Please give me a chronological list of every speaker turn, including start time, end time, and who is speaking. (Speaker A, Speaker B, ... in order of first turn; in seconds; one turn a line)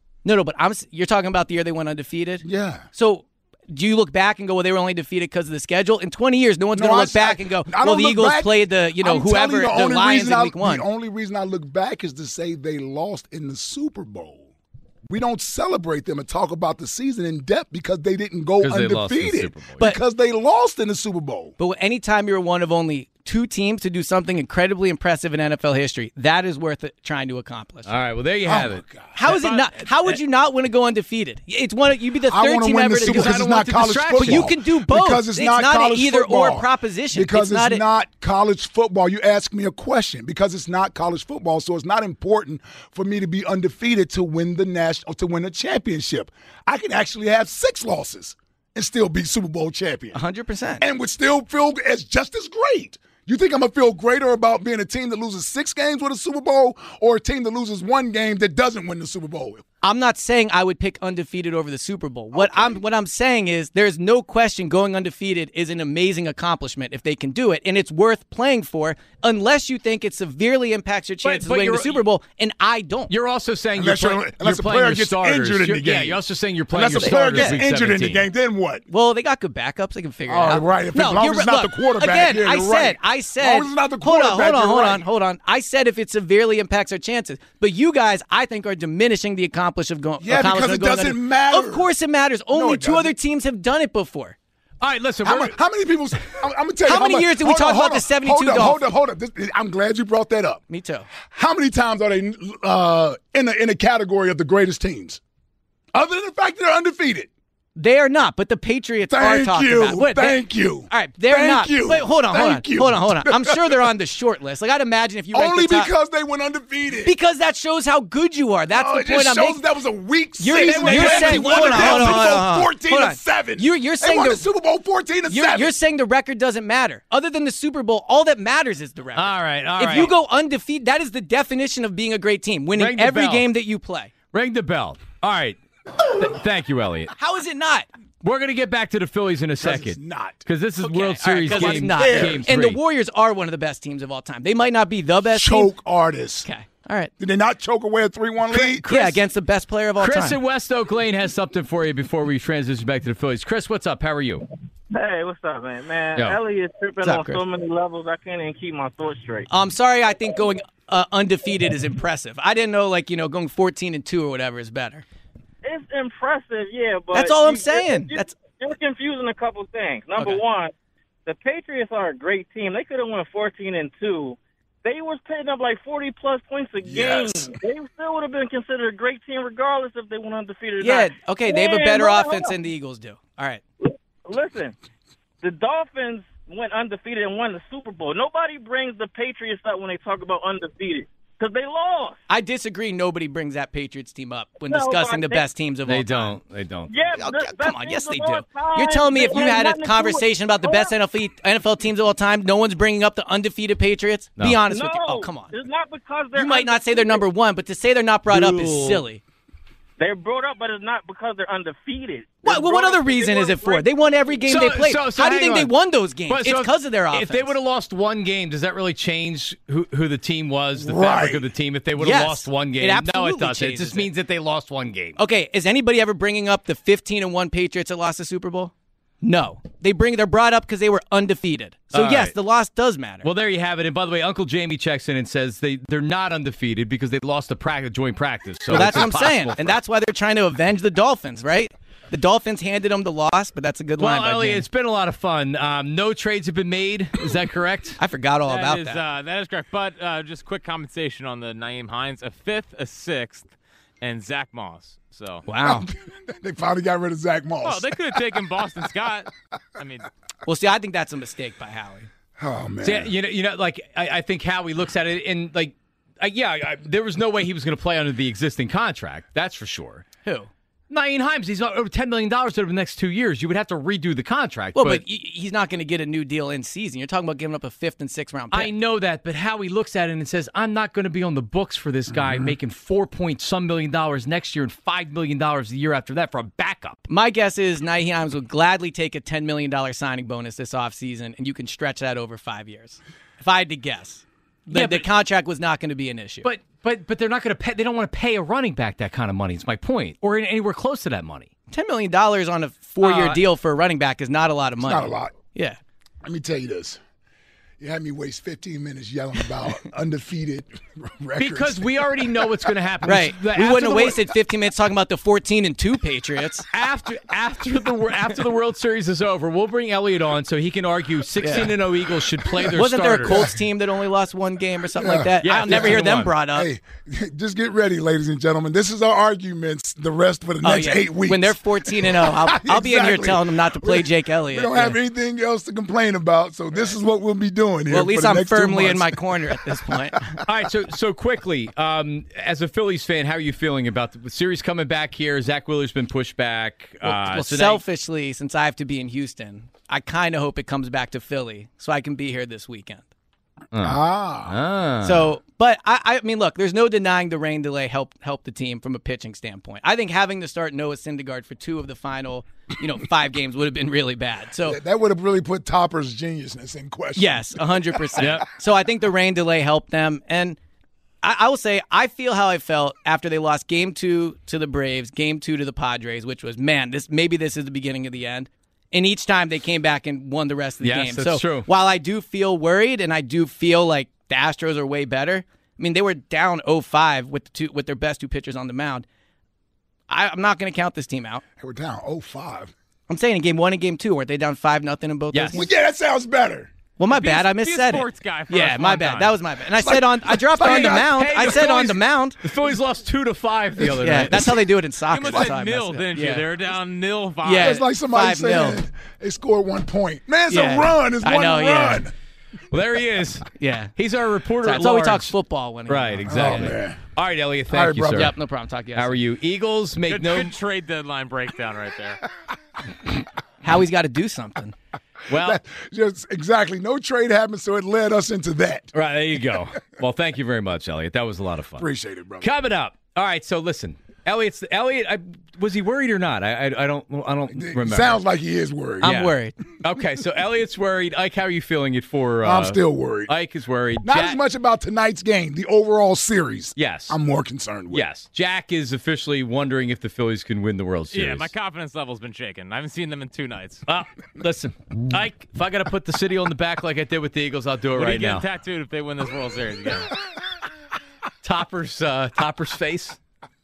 Speaker A: 0.2-10.9
Speaker B: 2.4-2.9
Speaker B: 6.7-14.5
Speaker B: 15.1-21.6
Speaker C: 18.6-19.8
Speaker A: 21.6-27.9
Speaker C: 27.9-29.6
Speaker B: 28.4-29.1
Speaker A: 29.1-33.4
Speaker B: 32.3-50.2
Speaker C: 33.0-34.5
Speaker A: 34.2-37.8
Speaker A: 50.1-50.9
Speaker B: 50.8-59.6
Speaker A: 59.8-73.1
Speaker B: 62.3-62.8
Speaker C: 71.2-72.0
Speaker C: 73.1-78.2
Speaker B: 73.8-78.8
Speaker A: 77.0-77.6
Speaker A: 78.9-94.4
Speaker B: 80.3-85.1
Speaker B: 90.2-91.9
Speaker B: 92.5-93.1
Speaker C: 94.8-95.6
Speaker B: 95.2-100.6
Speaker A: 96.8-98.8
Speaker A: 100.7-101.1
Speaker B: 101.3-105.2
Speaker B: 105.9-107.3
Speaker A: 107.8-115.9
Speaker B: 109.1-113.9
Speaker B: 115.3-117.1
Speaker A: 117.0-119.6
Speaker B: 118.7-125.8
Speaker A: 120.4-124.4
Speaker C: 120.5-122.4
Speaker A: 125.3-134.1
Speaker C: 129.2-130.1
Speaker C: 132.8-133.5
Speaker C: 134.3-137.1
Speaker A: 137.1-137.9
Speaker C: 138.2-142.8
Speaker B: 139.6-140.4
Speaker A: 140.8-145.8
Speaker B: 141.5-142.5
Speaker B: 145.3-146.5
Speaker A: 146.4-147.1
Speaker B: 147.2-149.2
Speaker A: 148.5-150.4
Speaker C: 150.0-154.5
Speaker D: 154.9-159.5
Speaker A: 157.0-157.4
Speaker A: 159.5-165.0
Speaker D: 165.6-170.7
Speaker A: 167.1-168.4
Speaker D: 171.3-182.5
Speaker B: 176.8-177.5
Speaker A: 180.8-183.6
Speaker D: 183.8-184.8
Speaker D: 185.4-192.2
Speaker A: 192.3-196.4
Speaker D: 194.7-195.4
Speaker C: 195.9-197.1
Speaker D: 196.9-200.9
Speaker A: 197.2-205.5
Speaker C: 204.4-204.6
Speaker D: 204.6-207.2
Speaker A: 206.3-209.2
Speaker C: 208.3-209.0
Speaker D: 210.0-214.0
Speaker A: 212.4-217.5
Speaker C: 214.5-215.7
Speaker C: 216.3-225.2
Speaker B: 220.8-221.5
Speaker A: 222.0-224.1
Speaker A: 225.2-233.3
Speaker C: 231.9-232.3
Speaker C: 233.2-239.8
Speaker A: 238.7-244.6
Speaker C: 244.0-248.0
Speaker A: 248.0-249.0
Speaker E: 248.5-255.4
Speaker A: 255.5-255.9
Speaker B: 255.7-258.4
Speaker E: 257.6-260.1
Speaker A: 260.4-262.1
Speaker B: 262.4-263.1
Speaker C: 262.8-270.1
Speaker A: 270.2-270.5
Speaker C: 270.9-275.0
Speaker A: 274.8-278.7
Speaker C: 278.5-287.1
Speaker A: 287.1-296.5
Speaker C: 294.7-295.1
Speaker C: 296.4-301.5
Speaker A: 301.7-305.8
Speaker C: 303.0-303.4
Speaker B: 304.8-305.4
Speaker B: 306.2-307.0
Speaker B: 307.8-312.5
Speaker C: 311.4-314.2
Speaker A: 313.0-316.7
Speaker C: 316.7-323.5
Speaker A: 321.4-321.7
Speaker A: 322.7-326.7
Speaker B: 325.0-340.2
Speaker C: 325.4-326.3
Speaker A: 330.6-335.0
Speaker A: 337.9-340.4
Speaker C: 340.4-347.8
Speaker A: 347.0-353.1
Speaker C: 353.7-355.4
Speaker B: 353.8-354.6
Speaker A: 355.0-364.8
Speaker B: 364.6-368.4
Speaker A: 367.1-370.6
Speaker C: 368.2-368.4
Speaker A: 371.2-389.1
Speaker C: 380.8-381.7
Speaker A: 390.1-391.4
Speaker B: 391.6-392.7
Speaker A: 393.1-395.7
Speaker C: 395.3-395.6
Speaker B: 395.5-396.7
Speaker A: 397.0-402.4
Speaker E: 397.1-399.4
Speaker B: 399.8-401.6
Speaker C: 400.6-404.6
Speaker A: 404.0-406.5
Speaker E: 405.1-407.8
Speaker A: 407.4-408.8
Speaker B: 407.6-412.1
Speaker A: 410.5-412.1
Speaker C: 412.7-415.3
Speaker A: 413.6-413.9
Speaker A: 414.6-416.7
Speaker C: 415.9-418.4
Speaker B: 416.3-417.0
Speaker B: 417.7-418.3
Speaker A: 418.1-419.2
Speaker C: 418.9-420.6
Speaker E: 420.1-422.2
Speaker A: 423.6-424.8
Speaker C: 425.3-425.6
Speaker B: 425.3-428.9
Speaker C: 428.9-431.9
Speaker B: 431.8-432.5
Speaker C: 432.4-438.2
Speaker B: 437.6-439.2
Speaker A: 439.0-439.6
Speaker C: 439.0-444.4
Speaker B: 442.4-443.3
Speaker B: 444.0-448.1
Speaker C: 446.8-447.2
Speaker C: 447.9-451.5
Speaker E: 451.1-453.8
Speaker C: 453.9-458.5
Speaker E: 457.9-460.1
Speaker C: 461.4-463.2